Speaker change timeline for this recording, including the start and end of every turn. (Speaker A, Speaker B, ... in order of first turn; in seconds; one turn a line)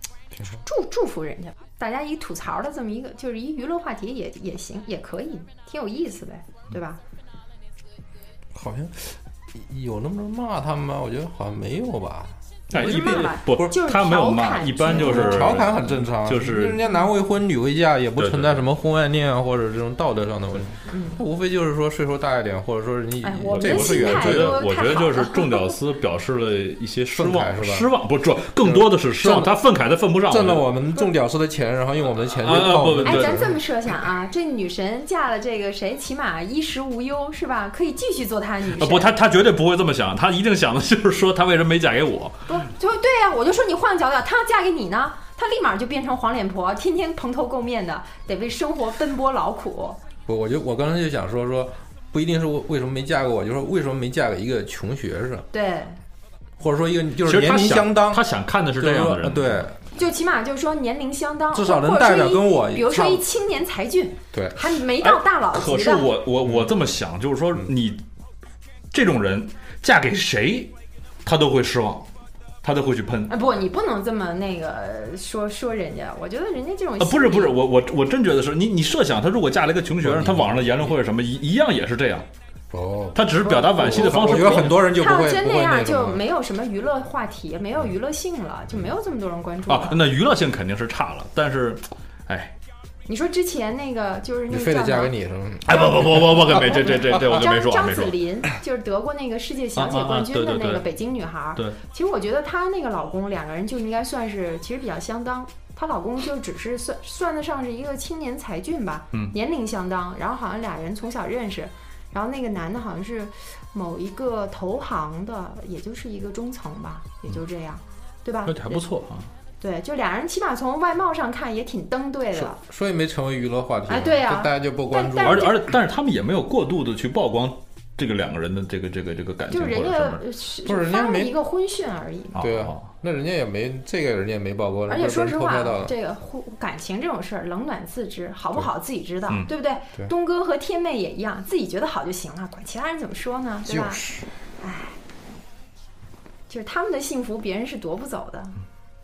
Speaker A: 0.6-7.0
Speaker B: 8.5-12.3
Speaker C: 12.7-16.8
Speaker A: 12.7-15.7
Speaker B: 14.9-24.6
Speaker C: 18.2-18.6
Speaker A: 20.9-21.2
Speaker A: 23.2-25.8
Speaker C: 23.4-30.7
Speaker B: 27.1-27.9
Speaker B: 28.6-29.5
Speaker B: 30.2-33.5
Speaker C: 32.4-33.5
Speaker A: 32.7-39.1
Speaker C: 38.7-42.4
Speaker A: 42.5-50.0
Speaker B: 50.2-55.5
Speaker A: 55.5-56.0
Speaker B: 56.6-58.2
Speaker C: 57.2-59.7
Speaker B: 58.8-59.8
Speaker A: 59.9-66.1
Speaker B: 61.5-63.2
Speaker B: 64.3-64.6
Speaker C: 65.0-68.0
Speaker C: 68.9-70.7
Speaker C: 71.2-72.0
Speaker C: 72.6-73.3
Speaker A: 73.3-77.6
Speaker C: 77.0-82.2
Speaker B: 80.0-80.9
Speaker B: 82.7-86.2
Speaker C: 83.1-84.8
Speaker A: 84.1-90.0
Speaker C: 89.7-92.5
Speaker A: 93.0-95.1
Speaker B: 94.5-96.8
Speaker C: 95.6-98.2
Speaker A: 96.5-118.8
Speaker C: 99.8-100.9
Speaker C: 118.5-119.3
Speaker A: 119.6-122.6
Speaker B: 122.3-125.5
Speaker A: 123.9-125.5
Speaker C: 125.2-130.2
Speaker A: 129.5-132.4
Speaker B: 130.6-131.3
Speaker C: 132.3-132.8
Speaker B: 132.4-135.9
Speaker A: 134.9-145.0
Speaker B: 143.6-144.3
Speaker A: 146.5-148.6